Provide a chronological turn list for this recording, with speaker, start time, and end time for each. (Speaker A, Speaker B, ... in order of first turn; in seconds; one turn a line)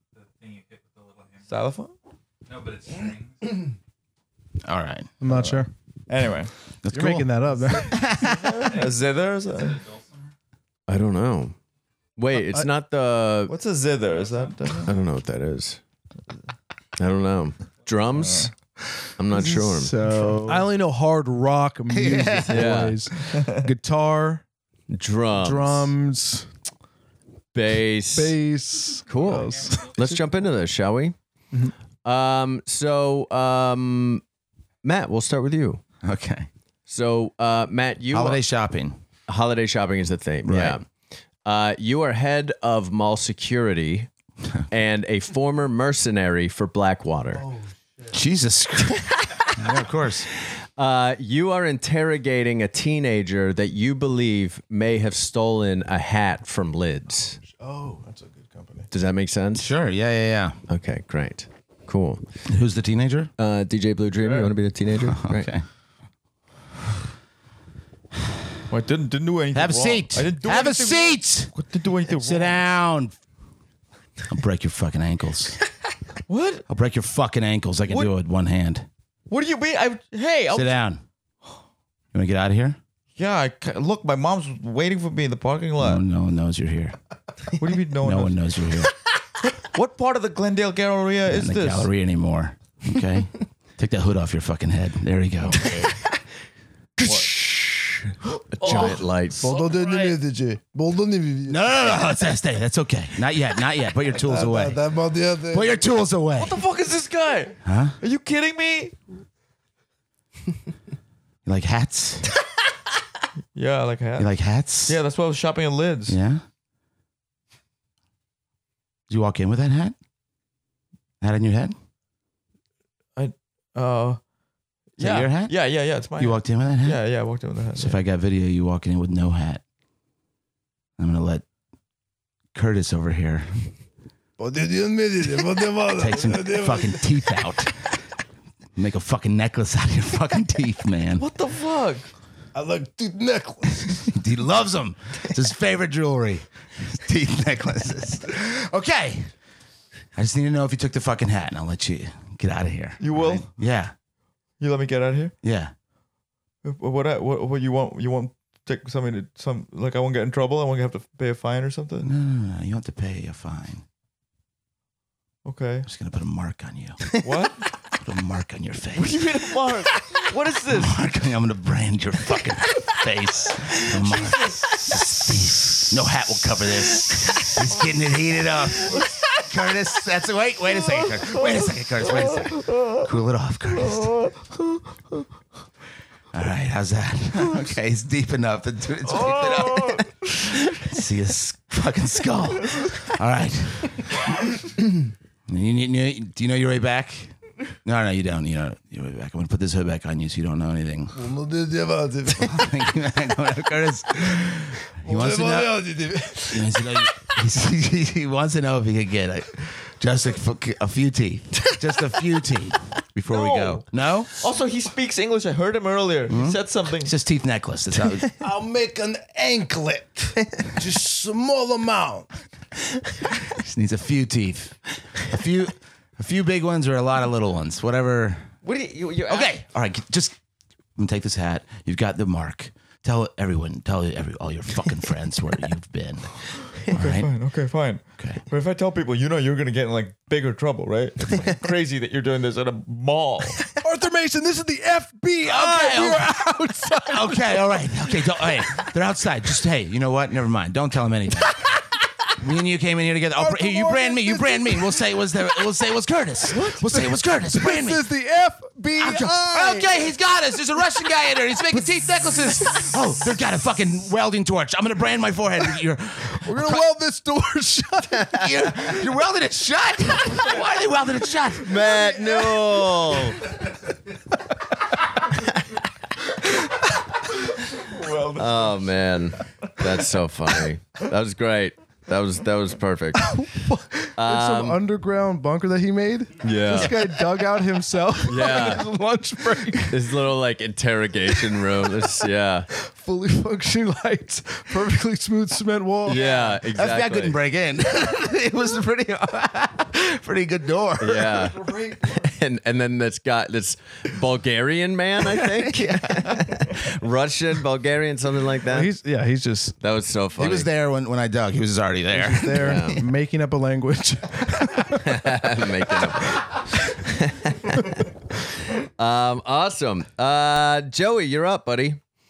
Speaker A: 0.1-1.5
Speaker B: 1.5-1.9
Speaker A: 2.5-3.7
Speaker C: 4.6-5.1
Speaker D: 5.2-5.7
Speaker B: 5.3-6.5
Speaker C: 6.8-8.7
Speaker D: 6.9-8.0
Speaker B: 8.2-9.8
Speaker A: 8.6-10.3
Speaker E: 10.9-11.5
Speaker E: 12.2-13.5
Speaker D: 12.3-12.7
Speaker B: 13.5-14.9
Speaker A: 14.1-14.7
Speaker E: 14.8-15.8
Speaker E: 17.0-18.5
Speaker B: 18.1-18.5
Speaker E: 19.2-20.4
Speaker D: 19.5-24.4
Speaker B: 20.1-20.6
Speaker C: 21.9-22.9
Speaker E: 22.5-23.0
Speaker B: 23.3-23.6
Speaker E: 24.9-25.9
Speaker D: 25.4-26.5
Speaker E: 27.5-28.4
Speaker D: 28.1-30.2
Speaker E: 29.1-31.1
Speaker A: 29.2-30.2
Speaker E: 32.0-34.2
Speaker E: 34.8-35.8
Speaker C: 36.0-36.5
Speaker E: 36.9-38.4
Speaker C: 38.1-39.0
Speaker E: 39.3-40.8
Speaker C: 40.4-40.8
Speaker E: 41.4-44.1
Speaker E: 44.7-47.4
Speaker D: 47.3-48.1
Speaker C: 48.1-50.3
Speaker E: 50.8-57.4
Speaker D: 57.2-58.9
Speaker E: 58.9-59.7
Speaker C: 59.5-60.6
Speaker E: 60.7-62.2
Speaker C: 62.5-63.3
Speaker E: 63.4-65.5
Speaker B: 64.2-64.5
Speaker C: 65.0-65.6
Speaker B: 68.7-72.7
Speaker C: 69.5-71.5
Speaker C: 72.1-73.2
Speaker C: 74.3-75.6
Speaker B: 76.3-76.6
Speaker C: 76.7-78.9
Speaker B: 79.3-80.8
Speaker C: 80.5-81.0
Speaker C: 82.1-82.8
Speaker B: 83.2-86.0
Speaker C: 85.8-87.0
Speaker B: 87.5-88.4
Speaker C: 88.0-88.9
Speaker B: 89.5-91.9
Speaker C: 91.3-95.8
Speaker E: 97.0-99.5
Speaker B: 97.0-97.3
Speaker B: 98.5-100.2
Speaker D: 99.4-101.7
Speaker C: 101.5-104.8
Speaker D: 104.1-105.8
Speaker C: 105.5-106.6
Speaker B: 106.4-109.0
Speaker C: 107.6-108.0
Speaker C: 111.4-112.3
Speaker B: 113.5-114.3
Speaker C: 114.2-115.0
Speaker B: 114.8-116.2
Speaker C: 116.1-116.4
Speaker C: 119.1-120.0
Speaker C: 121.2-121.7
Speaker B: 123.2-124.2
Speaker B: 125.0-128.0
Speaker C: 125.0-125.5
Speaker C: 126.2-127.0
Speaker C: 127.8-129.6
Speaker C: 131.0-131.4
Speaker C: 132.5-133.7
Speaker D: 134.4-137.1
Speaker C: 135.9-137.9
Speaker C: 138.8-141.2
Speaker B: 141.2-142.1
Speaker D: 142.5-144.1
Speaker C: 144.1-149.3
Speaker C: 150.1-153.9
Speaker B: 153.0-153.5
Speaker B: 154.6-155.3
Speaker C: 155.4-155.7
Speaker B: 156.6-162.1
Speaker C: 162.0-163.8
Speaker B: 165.4-165.9
Speaker C: 165.8-167.1
Speaker B: 167.2-167.7
Speaker C: 167.9-169.8
Speaker B: 168.9-171.0
Speaker C: 170.7-184.2
Speaker B: 173.9-175.1
Speaker B: 178.9-179.3
Speaker B: 181.1-183.0
Speaker B: 183.8-184.5
Speaker C: 186.3-194.1
Speaker B: 189.1-190.1
Speaker C: 195.5-201.3
Speaker D: 201.1-202.5
Speaker C: 202.3-214.3
Speaker D: 205.0-206.7
Speaker B: 213.3-217.1
Speaker C: 216.3-218.3
Speaker D: 218.4-222.3
Speaker C: 223.5-228.5
Speaker B: 228.6-229.5
Speaker C: 229.3-230.3
Speaker C: 230.9-237.3
Speaker B: 236.9-243.7
Speaker D: 243.8-248.0
Speaker C: 245.4-246.3
Speaker C: 247.1-251.7
Speaker C: 252.3-258.1
Speaker D: 253.4-254.8
Speaker D: 256.5-260.0
Speaker C: 259.0-266.9
Speaker D: 266.4-268.5
Speaker C: 268.3-271.8
Speaker E: 271.6-273.4
Speaker B: 277.7-278.9
Speaker E: 278.4-283.4
Speaker D: 283.2-290.0
Speaker E: 284.2-284.8
Speaker E: 286.4-287.2
Speaker E: 288.2-288.9
Speaker E: 289.9-292.7
Speaker D: 292.8-296.2
Speaker E: 296.1-297.4
Speaker C: 296.1-301.5
Speaker E: 301.0-308.9
Speaker D: 301.5-302.2
Speaker C: 305.7-306.4
Speaker D: 308.7-309.7
Speaker E: 309.8-310.7
Speaker C: 310.4-312.9
Speaker D: 312.1-315.2
Speaker E: 312.5-313.0
Speaker E: 315.0-318.1
Speaker E: 318.8-322.0